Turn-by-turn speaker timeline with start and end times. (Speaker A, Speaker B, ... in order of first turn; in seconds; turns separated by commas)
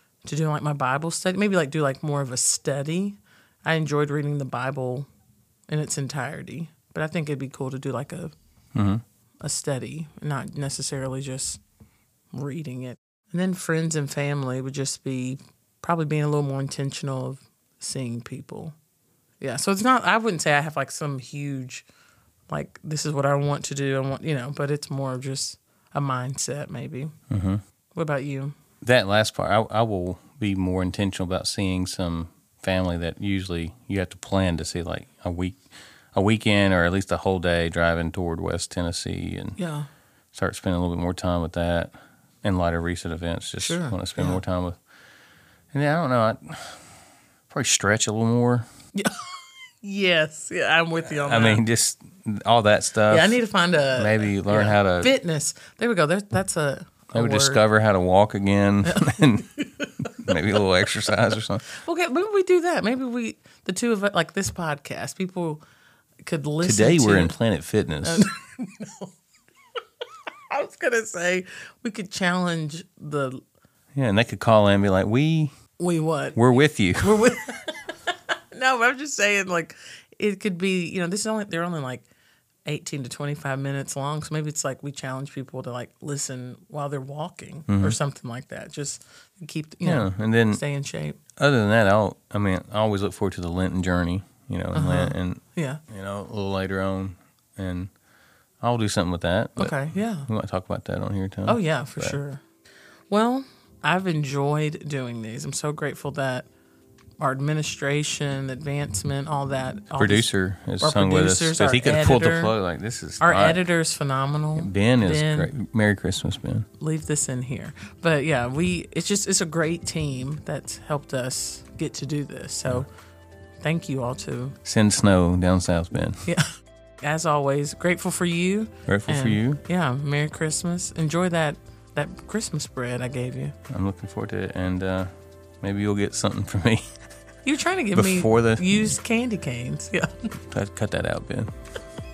Speaker A: 0.2-5.1, Speaker A: 5.7-8.3, Speaker B: 8.8-9.0, Speaker A: 9.4-11.6, Speaker A: 12.3-18.8, Speaker A: 19.4-21.9, Speaker A: 22.5-27.1, Speaker B: 27.3-27.6, Speaker A: 27.9-28.5, Speaker B: 28.8-35.6, Speaker B: 36.1-39.6, Speaker A: 39.6-39.9, Speaker B: 40.3-44.8, Speaker A: 43.6-44.4, Speaker B: 45.7-46.8, Speaker B: 47.5-48.7, Speaker A: 49.0-49.3, Speaker A: 49.8-51.6, Speaker B: 51.1-53.4, Speaker A: 53.1-57.6, Speaker B: 54.0-55.1, Speaker B: 57.1-59.5, Speaker A: 58.9-60.4, Speaker B: 60.1-61.6, Speaker A: 61.7-65.6, Speaker A: 66.2-67.3, Speaker B: 66.6-68.3, Speaker A: 68.0-69.1, Speaker A: 70.5-73.4, Speaker B: 74.0-75.5, Speaker A: 75.8-76.4, Speaker B: 76.3-77.3, Speaker A: 77.0-82.1, Speaker A: 82.7-91.2, Speaker B: 87.7-88.0, Speaker B: 89.8-90.6, Speaker B: 91.4-97.9, Speaker A: 94.7-95.8, Speaker B: 98.6-102.2, Speaker A: 99.6-100.3, Speaker A: 101.5-102.4, Speaker A: 103.1-106.5, Speaker A: 107.2-112.5, Speaker B: 110.0-113.7, Speaker A: 113.2-115.5, Speaker B: 114.6-116.7, Speaker A: 116.8-122.9, Speaker A: 123.6-124.6, Speaker B: 124.7-126.3, Speaker A: 127.0-133.6, Speaker B: 128.9-129.6, Speaker B: 133.7-136.9, Speaker A: 137.4-140.3, Speaker B: 137.9-139.0, Speaker B: 140.5-141.5